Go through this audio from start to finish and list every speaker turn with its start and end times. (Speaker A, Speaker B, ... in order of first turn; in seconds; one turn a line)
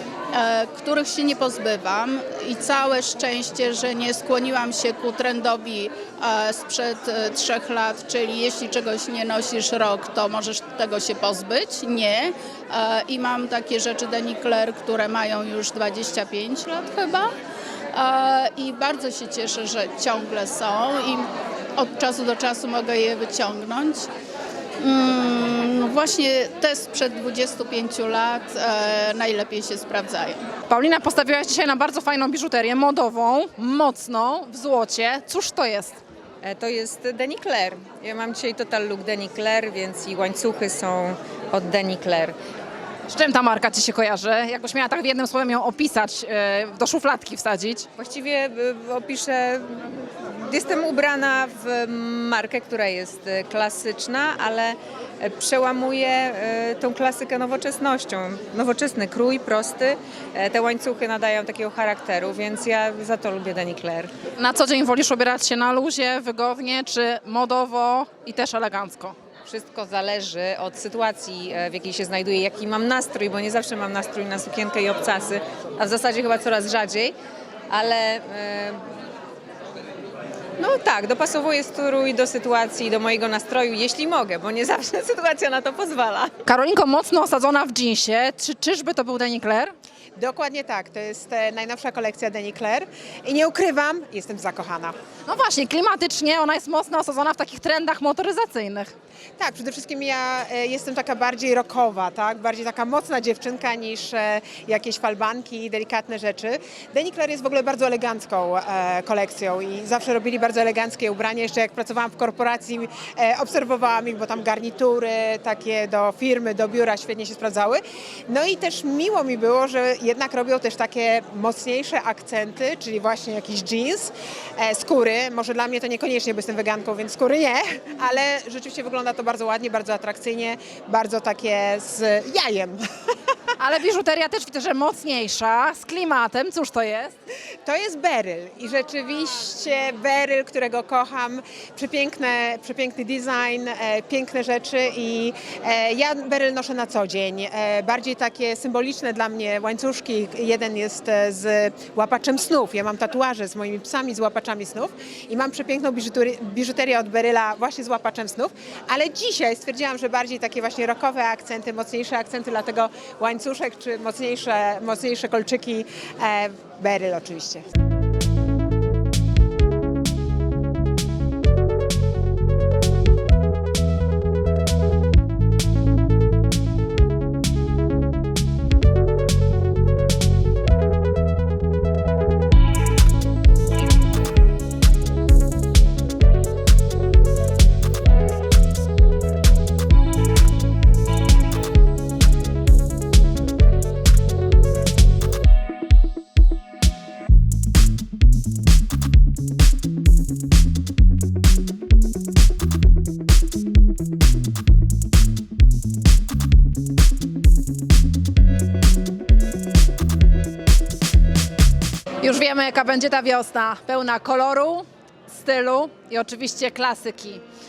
Speaker A: 0.3-17.3
Speaker A: 17.9-24.1
Speaker A: 24.8-30.4
Speaker B: 30.7-36.0
Speaker C: 36.4-42.4
Speaker B: 43.1-47.9
Speaker C: 48.0-64.1
Speaker B: 64.4-69.2
Speaker C: 69.5-77.2
Speaker C: 77.7-78.8
Speaker C: 80.6-86.4
Speaker B: 86.5-89.7
Speaker D: 90.2-94.9
Speaker B: 95.3-98.9
Speaker D: 99.4-132.8
Speaker B: 133.6-137.1
Speaker D: 137.7-167.7
Speaker B: 212.2-217.4